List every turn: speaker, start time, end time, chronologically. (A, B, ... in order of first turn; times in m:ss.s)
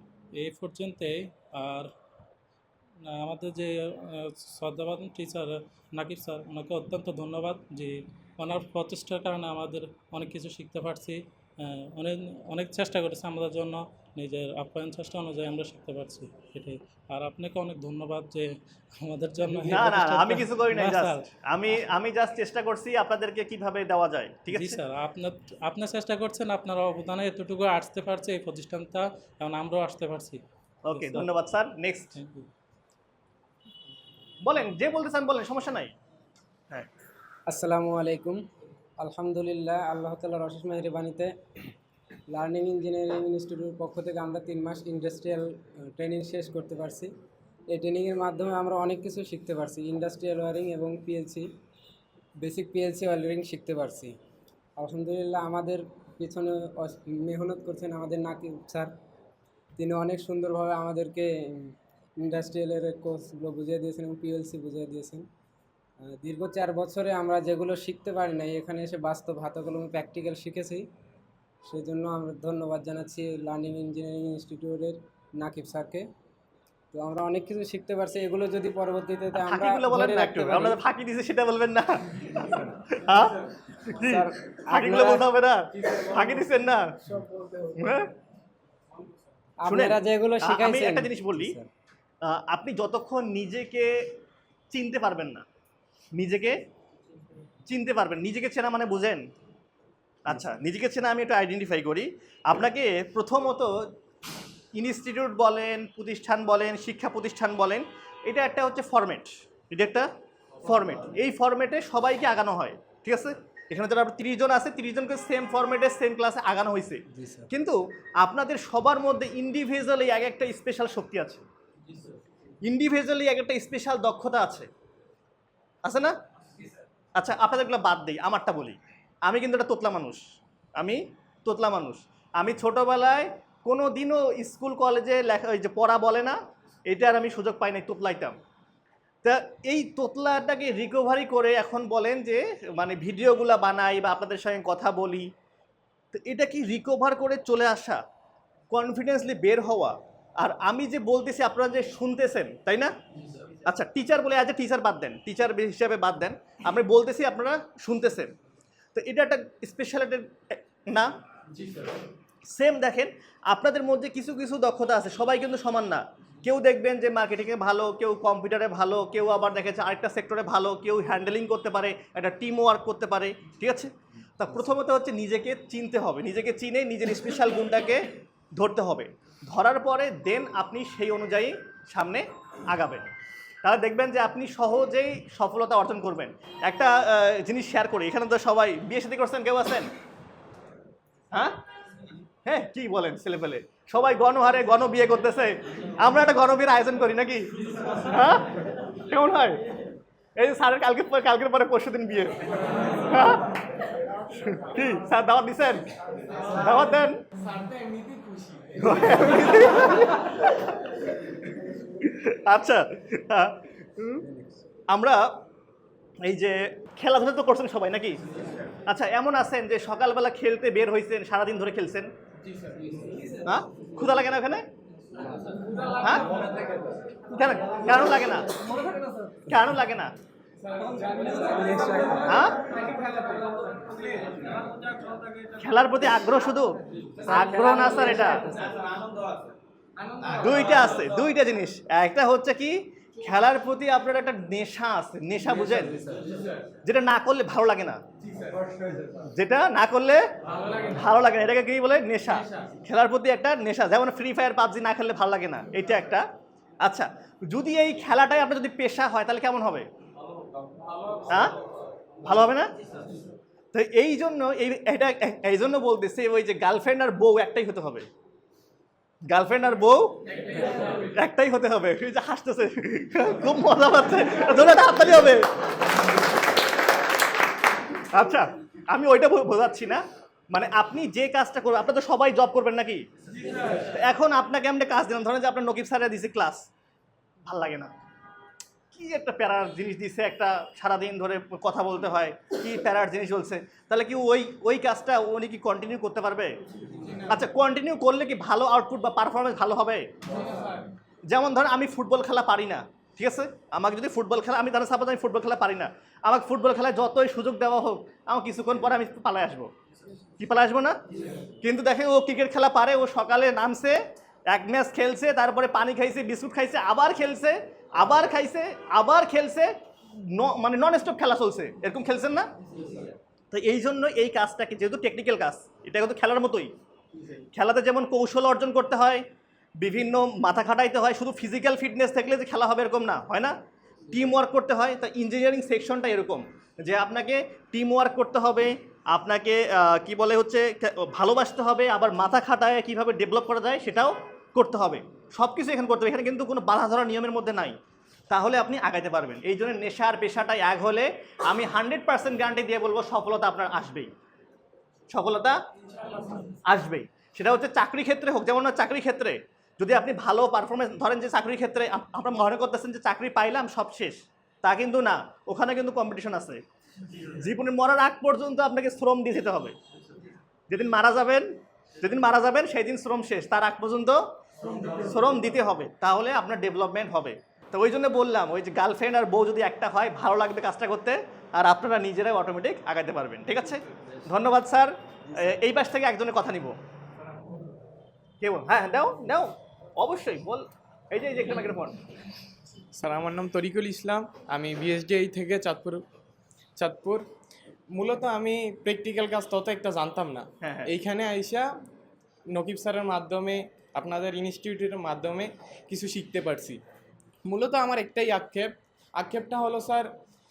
0:00.4-0:01.9 A
0:03.0-0:21.3 A
0:19.7-0:24.8 B
0:24.5-0:30.4 A
0:30.9-0:32.1 B
0:30.9-0:31.3 A
0:32.2-0:32.5 A
0:34.4-0:35.9 B
0:37.5-0:38.4 C
0:39.0-0:41.3 C
0:42.3-0:47.1 C
0:47.7-0:51.5 C
0:52.4-0:54.2 C
0:54.8-0:58.9 C
0:59.8-1:05.3 C
1:06.0-1:10.9 C
1:11.7-1:16.1 C
1:16.9-1:20.8 C
1:19.4-1:27.0 B
1:24.0-1:25.3 C
1:27.8-1:28.1 B
1:29.6-1:31.7 C
1:29.7-1:31.6 B
1:32.2-1:34.1 B
1:34.7-1:35.4 B
1:36.2-1:36.6 B
1:37.7-1:39.2 B
1:40.2-1:43.9 B
1:44.8-1:50.1 B
1:50.6-2:01.4 B
1:57.1-1:57.5 C
2:02.6-2:04.7 B
2:05.8-2:06.1 B
2:07.2-2:10.2 B
2:10.8-2:18.4 B
2:19.2-2:25.3 B
2:26.1-2:28.0 B
2:28.7-2:32.9 B
2:33.6-2:38.3 B
2:39.0-2:41.1 B
2:42.5-3:03.1 B
3:03.6-3:09.9 B
3:11.3-3:11.6 B
3:12.5-3:19.7 B
3:20.4-3:22.4 B
3:22.9-3:23.6 B
3:24.4-3:27.2 B
3:27.4-3:29.6 D
3:28.8-3:31.0 B
3:32.0-3:34.2 B
3:34.2-3:34.6 C
3:34.9-3:35.3 B
3:36.2-3:38.2 B
3:38.9-3:42.1 B
3:42.5-3:43.2 D
3:43.4-3:44.6 B
3:46.0-3:46.3 B
3:47.3-3:48.6 B
3:49.4-3:50.1 B
3:50.7-3:52.2 D
3:52.2-3:52.6 B
3:52.8-3:53.5 D
3:55.6-3:56.7 B
3:57.2-3:58.6 B
3:57.3-3:58.2 C
4:00.3-4:06.0 B
4:06.8-4:08.0 B
4:09.2-4:10.2 B
4:10.9-4:16.2 B
4:16.8-4:19.9 B
4:21.3-4:21.6 B
4:22.2-4:22.7 B
4:23.7-4:28.1 B
4:29.3-4:30.2 B
4:31.1-4:35.5 B
4:38.1-4:43.1 B
4:43.8-4:46.7 B
4:47.5-4:47.9 B
4:48.9-4:56.6 B
4:57.3-5:00.1 B
5:01.3-5:09.7 B
5:10.4-5:11.0 B
5:11.6-5:14.0 B
5:14.5-5:22.5 B
5:23.5-5:26.7 B
5:27.6-5:29.2 B
5:29.8-5:33.6 B
5:34.1-5:47.8 B
5:48.3-5:54.1 B
5:55.1-5:55.6 B
5:56.7-6:06.6 B
6:07.2-6:09.8 B
6:10.7-6:14.2 B
6:14.9-6:26.8 B
6:28.4-6:32.0 B
6:32.9-6:36.0 D
6:36.8-6:37.2 D
6:37.9-6:41.7 D
6:40.6-6:40.9 B
6:42.5-6:46.8 D
6:47.4-6:50.1 D